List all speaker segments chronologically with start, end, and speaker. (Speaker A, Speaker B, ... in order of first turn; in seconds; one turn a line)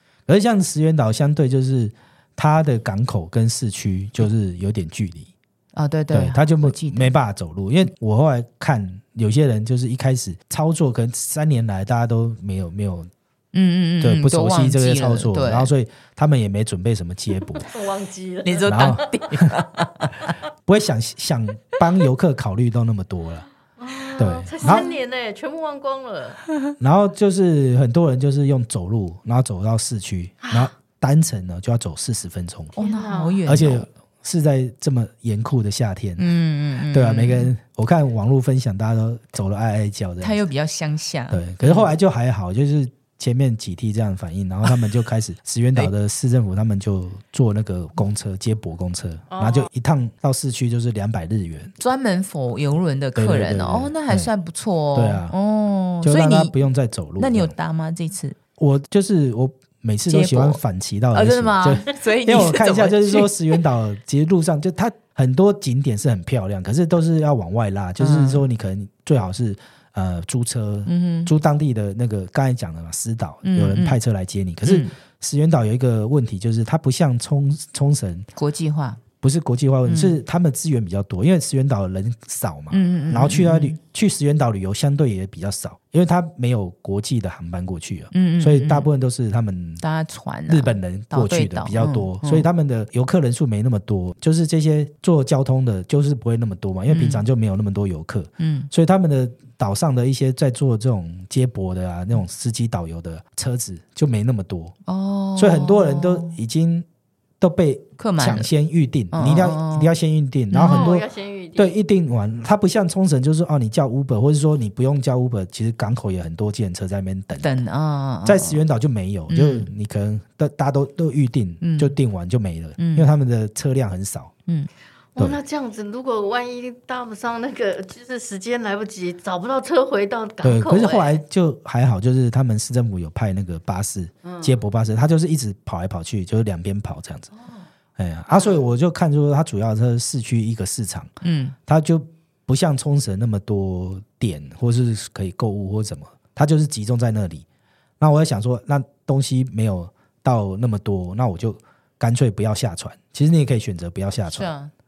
Speaker A: 0.3-5.3
Speaker B: 5.7-7.1
Speaker A: 6.1-13.1
Speaker B: 13.5-15.7
Speaker A: 14.0-17.7
Speaker C: 17.6-19.1
Speaker B: 18.4-20.3
Speaker A: 18.6-19.6
Speaker A: 20.6-23.4
Speaker C: 23.8-26.4
Speaker A: 24.2-24.9
Speaker A: 26.8-32.8
Speaker C: 30.4-30.7
Speaker B: 32.8-33.9
Speaker C: 32.8-33.4
Speaker A: 33.4-36.2
Speaker B: 36.2-37.5
Speaker A: 36.9-40.4
Speaker B: 40.2-41.9
Speaker A: 41.3-51.7
Speaker C: 49.3-49.7
Speaker B: 51.8-56.6
Speaker A: 53.1-54.3
Speaker A: 54.9-55.3
Speaker A: 56.0-57.5
Speaker B: 57.2-58.4
Speaker A: 58.6-78.3
Speaker B: 60.1-60.6
Speaker B: 61.1-63.6
Speaker B: 68.0-68.4
Speaker B: 70.8-71.3
Speaker B: 73.4-74.0
Speaker B: 74.6-74.9
Speaker B: 78.3-79.0
Speaker A: 79.2-89.8
Speaker B: 79.8-80.2
Speaker B: 82.7-83.8
Speaker B: 88.1-88.9
Speaker B: 89.8-92.5
Speaker A: 90.5-104.7
Speaker B: 96.9-97.3
Speaker B: 98.4-98.7
Speaker B: 104.8-106.4
Speaker A: 105.4-106.8
Speaker A: 107.4-117.5
Speaker B: 108.0-108.5
Speaker B: 109.1-109.9
Speaker B: 110.5-110.9
Speaker C: 110.6-111.7
Speaker B: 117.4-118.6
Speaker A: 118.2-124.3
Speaker B: 119.3-119.7
Speaker B: 121.6-121.9
Speaker B: 122.8-123.1
Speaker C: 125.1-131.2
Speaker A: 130.4-137.3
Speaker C: 134.2-134.5
Speaker A: 138.0-141.1
Speaker B: 141.2-141.6
Speaker A: 141.7-147.4
Speaker A: 148.0-154.5
Speaker B: 154.3-154.7